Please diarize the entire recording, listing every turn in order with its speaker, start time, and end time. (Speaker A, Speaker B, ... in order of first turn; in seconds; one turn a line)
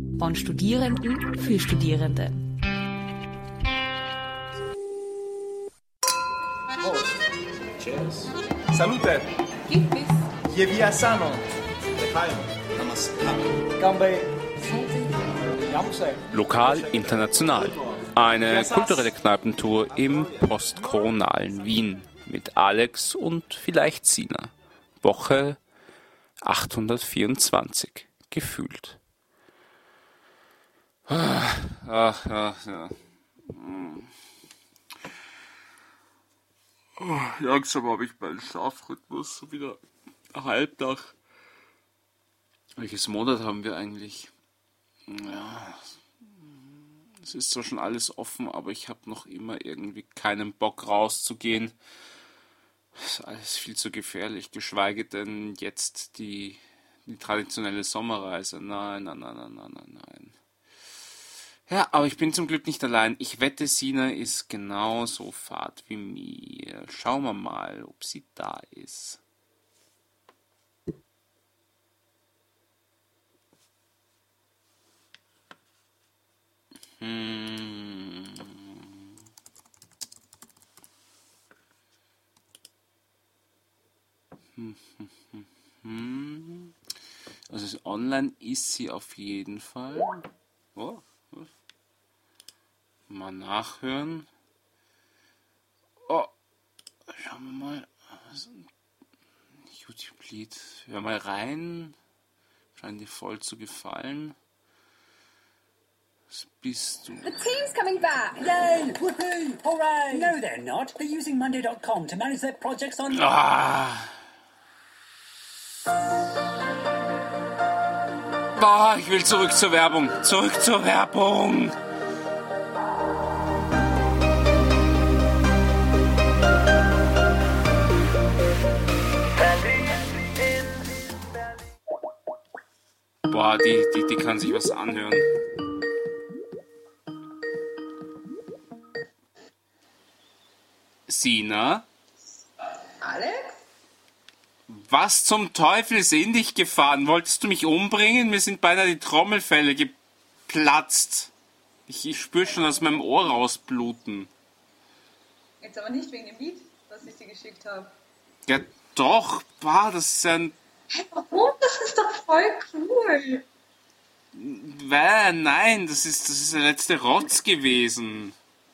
Speaker A: 0.2-2.4
Speaker B: 6.8-7.1
Speaker C: 7.8-8.3
Speaker B: 8.7-9.3
Speaker A: 9.7-10.1
Speaker B: 10.4-11.4
Speaker B: 12.0-14.3
Speaker B: 15.7-16.2
Speaker C: 16.3-25.6
Speaker B: 18.6-18.9
Speaker C: 26.4-29.0
Speaker C: 31.1-34.1
Speaker C: 37.0-41.1
Speaker C: 42.8-44.3
Speaker C: 45.1-51.8
Speaker C: 53.0-60.3
Speaker C: 61.7-69.2
Speaker C: 77.0-79.1
Speaker C: 84.5-86.7
Speaker C: 87.5-91.5
Speaker C: 93.1-94.3
Speaker C: 96.0-96.3
Speaker C: 97.1-98.7
Speaker C: 99.7-102.0
Speaker C: 102.8-104.3
Speaker C: 106.3-107.4
Speaker D: 108.3-113.3
Speaker C: 113.1-114.1
Speaker C: 118.5-121.8
Speaker C: 133.3-135.2
Speaker C: 141.1-141.8
Speaker E: 143.0-143.6
Speaker C: 144.7-149.9
Speaker C: 150.5-151.3
Speaker C: 151.9-154.3
Speaker E: 155.6-157.9
Speaker C: 158.5-160.5
Speaker E: 160.9-163.4
Speaker C: 164.3-168.3